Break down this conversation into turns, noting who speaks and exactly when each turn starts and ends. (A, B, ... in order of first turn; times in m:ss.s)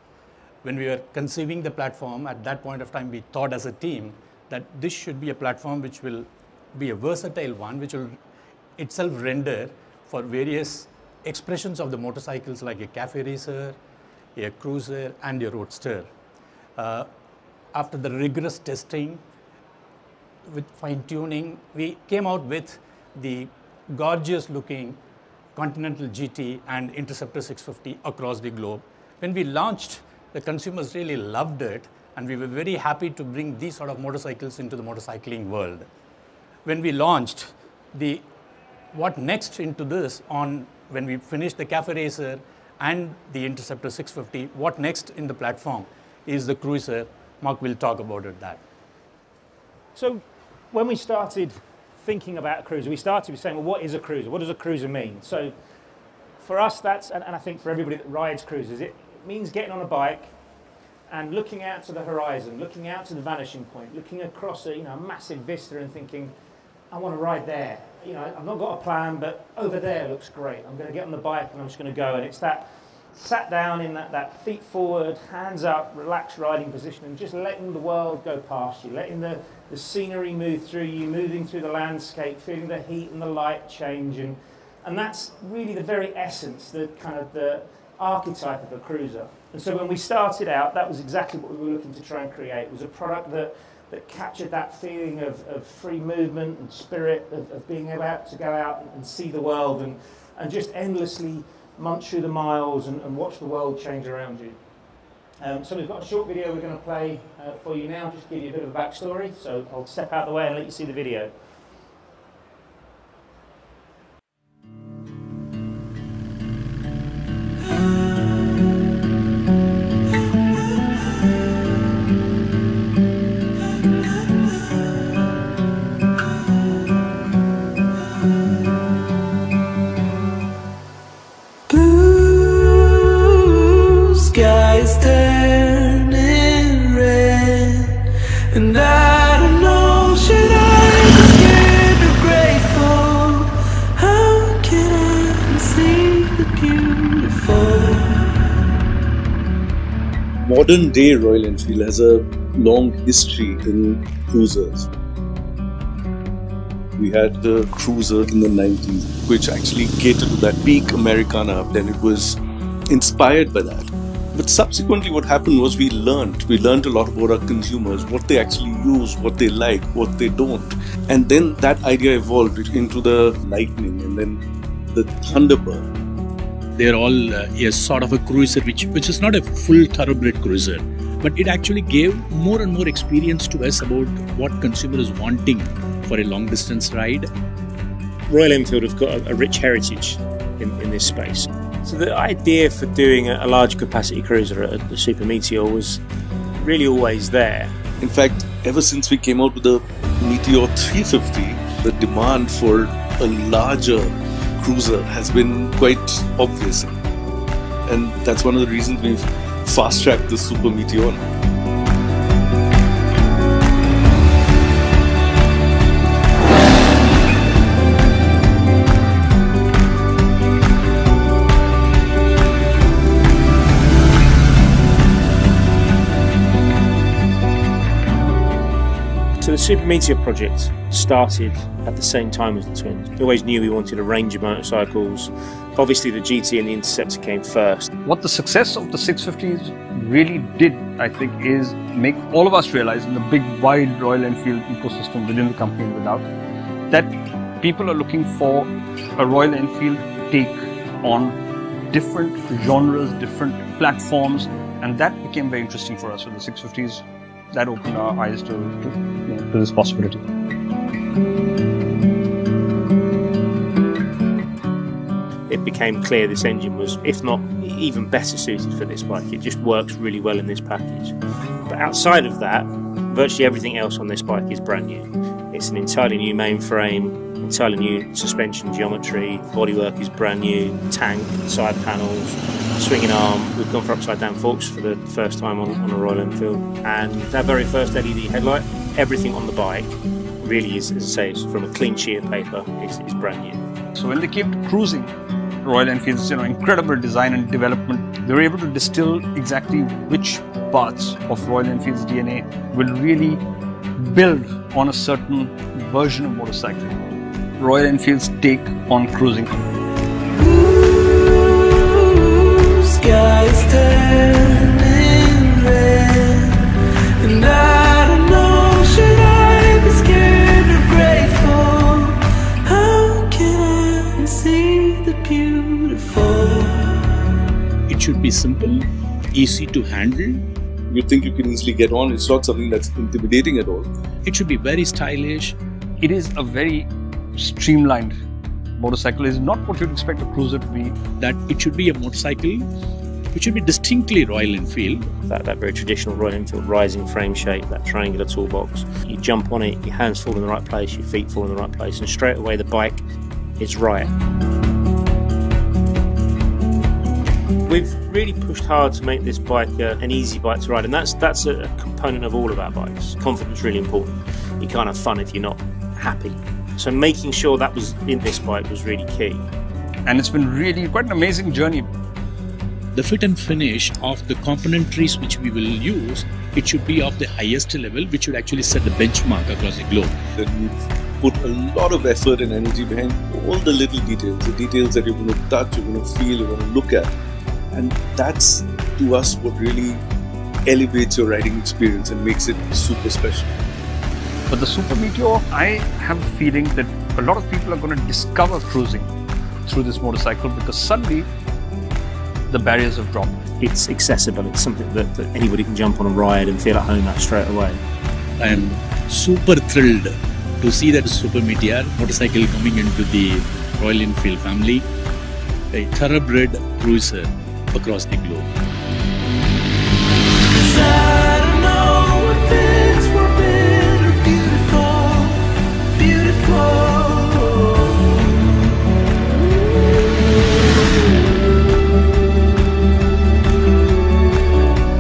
0:00.6-0:08.2 A
0:08.8-0:13.8 A
0:14.4-0:16.1 A
0:16.8-0:17.1 A
0:17.7-0:19.2 A
0:20.5-0:25.0 A
0:25.6-0:35.9 A
0:36.6-0:38.2 A
0:38.9-0:48.6 A
0:50.0-0:55.5 B
0:56.4-1:00.3 B
1:01.1-1:06.3 B
1:06.9-1:44.6 B
1:45.4-1:51.3 B
2:11.7-2:28.4 C
2:30.4-2:34.9 D
2:37.0-2:54.4 D
2:54.9-2:55.9 D
2:56.8-3:07.3 A
3:08.3-3:16.0 E
3:16.6-3:17.7 E
3:18.0-3:26.9 D
3:27.9-3:31.2 D
3:49.4-3:57.9 E
3:58.0-4:06.3 F
4:06.9-4:11.4 F
4:11.9-4:20.3 F
4:25.5-4:31.2 E
4:31.7-4:49.9 E
4:50.4-4:53.6 E
4:54.0-5:03.4 F
5:04.0-5:07.0 F
5:07.6-5:09.6 F
5:10.4-5:27.1 C
5:27.9-5:30.4 A
5:30.9-5:33.9 D
5:34.2-5:35.6 A
5:36.0-5:38.1 F
5:38.8-5:41.0 F
5:41.2-5:42.7 A
5:43.3-5:45.1 A
5:45.3-5:53.0 E
5:53.6-5:54.1 E
5:57.7-6:09.4 E
6:10.0-6:11.9 F
6:13.0-6:20.2 A
6:20.4-6:27.1 D
6:27.7-6:30.0 D
6:30.7-6:33.6 D
6:34.5-6:39.1 F
6:39.7-6:41.3 F
6:42.5-6:43.4 F
6:43.6-6:47.8 E
6:48.4-6:54.9 A
6:55.7-6:58.5 A
7:00.5-7:08.5 C